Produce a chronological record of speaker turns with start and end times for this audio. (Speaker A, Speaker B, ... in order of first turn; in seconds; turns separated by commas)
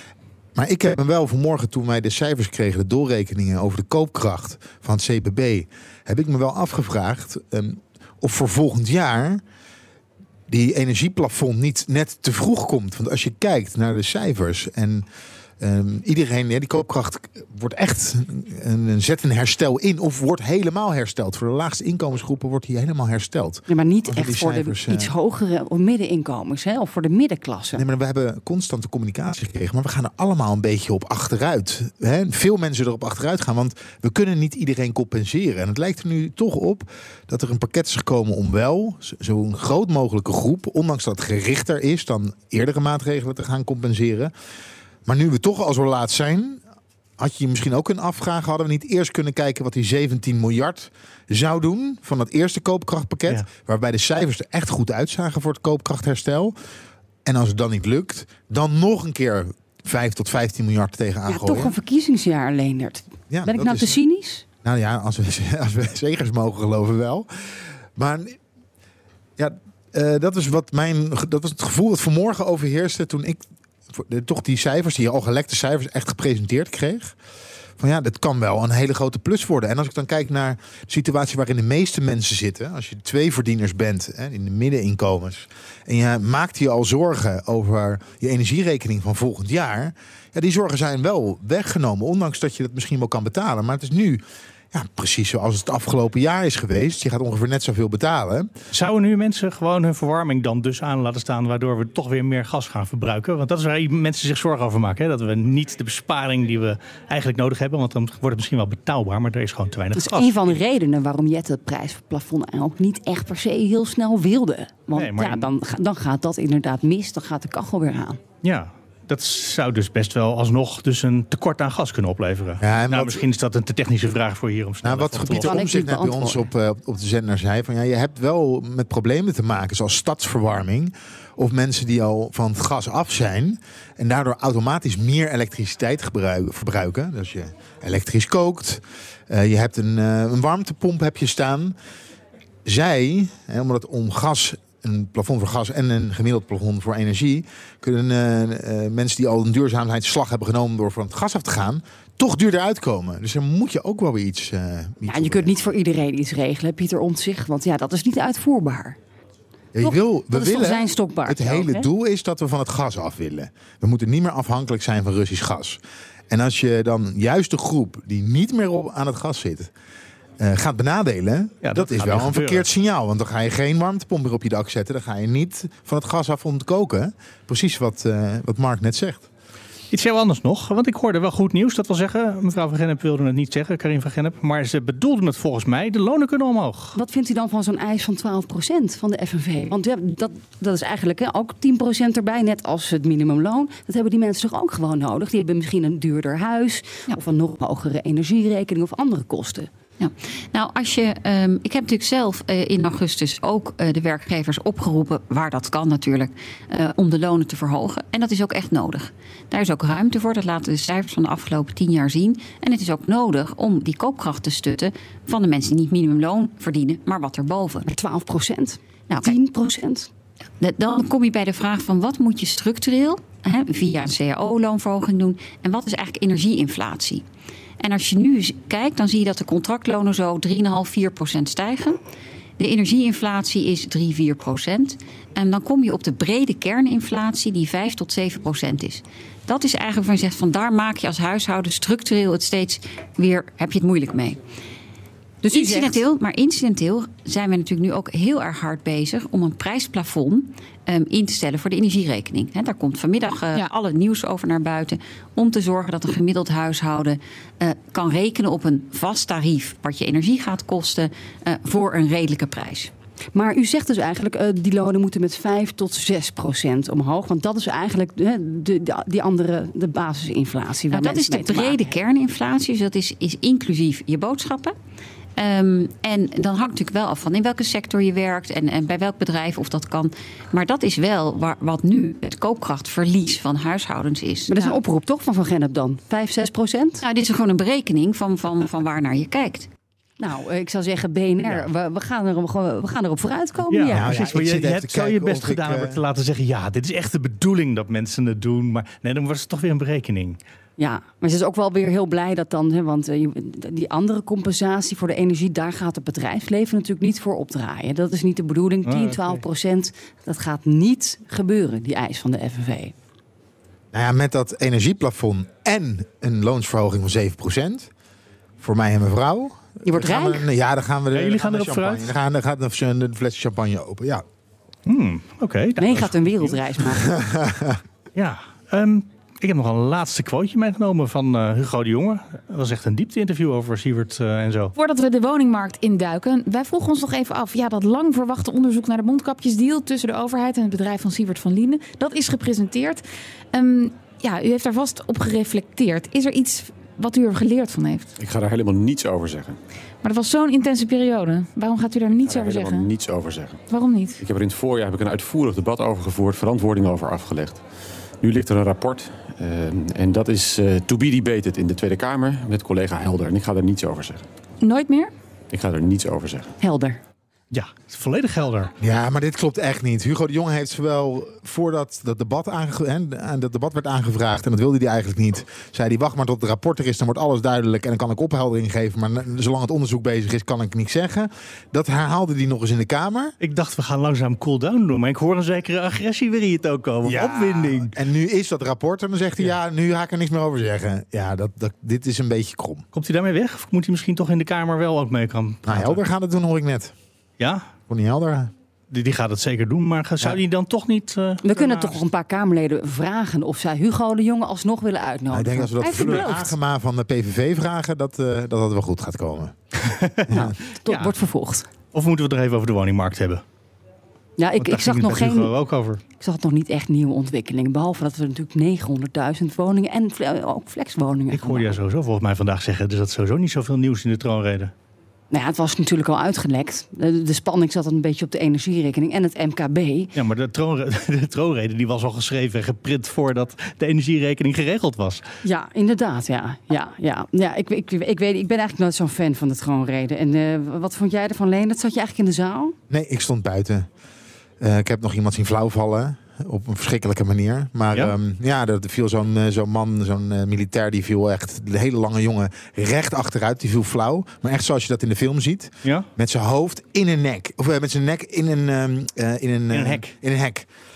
Speaker A: 0.5-9.4, Speaker A: 10.5-15.1, Speaker A: 15.6-25.1, Speaker B: 23.7-27.8, Speaker A: 27.7-44.3, Speaker A: 45.0-46.6, Speaker A: 47.2-56.5, Speaker A: 57.2-61.7, Speaker B: 61.3-64.4, Speaker A: 63.3-64.0, Speaker A: 64.6-68.4, Speaker A: 69.4-77.2, Speaker A: 77.8-98.5, Speaker C: 98.7-110.5, Speaker B: 110.0-118.2, Speaker C: 114.9-115.5, Speaker C: 118.4-125.6, Speaker A: 122.6-123.2, Speaker A: 124.8-141.8, Speaker B: 125.3-126.4, Speaker A: 142.6-155.7, Speaker B: 155.1-159.0, Speaker A: 159.7-165.8, Speaker B: 159.8-161.9, Speaker A: 166.3-169.7, Speaker A: 170.4-179.2, Speaker C: 171.6-172.7, Speaker C: 179.9-187.0, Speaker B: 186.9-199.7, Speaker D: 200.0-217.9, Speaker B: 217.8-220.1, Speaker D: 220.6-227.2, Speaker D: 227.8-232.0, Speaker D: 232.6-244.4, Speaker B: 245.4-246.0, Speaker D: 245.4-262.9, Speaker B: 263.3-271.8, Speaker D: 270.9-274.7, Speaker D: 275.4-284.6, Speaker B: 284.5-287.0, Speaker D: 287.0-289.7, Speaker B: 290.2-294.3, Speaker C: 293.7-300.4, Speaker A: 293.9-296.0, Speaker B: 300.8-312.9, Speaker C: 308.8-309.4, Speaker A: 313.9-317.9, Speaker A: 318.6-324.2, Speaker B: 319.9-320.4, Speaker C: 321.1-322.1, Speaker C: 324.9-326.8, Speaker B: 325.8-327.1, Speaker A: 327.0-327.8, Speaker C: 328.1-334.7, Speaker E: 334.8-348.1, Speaker F: 348.2-349.6, Speaker E: 350.0-352.9, Speaker F: 352.1-353.6, Speaker E: 353.7-354.2, Speaker F: 354.2-357.6, Speaker F: 358.2-364.2, Speaker E: 364.6-365.1, Speaker F: 365.5-366.5, Speaker B: 366.6-367.0, Speaker C: 367.5-368.7, Speaker A: 368.8-383.3, Speaker C: 383.4-387.9, Speaker A: 387.0-392.8, Speaker C: 392.9-396.0, Speaker A: 395.6-396.9, Speaker C: 397.4-397.7, Speaker A: 397.9-398.5, Speaker C: 398.9-402.0, Speaker B: 401.4-406.5, Speaker A: 405.3-409.5, Speaker C: 405.9-406.3, Speaker C: 409.8-411.1, Speaker B: 410.3-411.7, Speaker C: 411.9-413.4, Speaker B: 414.4-415.5, Speaker C: 414.6-416.0, Speaker B: 416.2-421.8, Speaker C: 421.3-424.7, Speaker B: 425.3-430.1, Speaker C: 430.1-435.2, Speaker B: 435.4-442.8, Speaker A: 442.9-443.9, Speaker A: 444.6-460.7, Speaker C: 459.7-460.1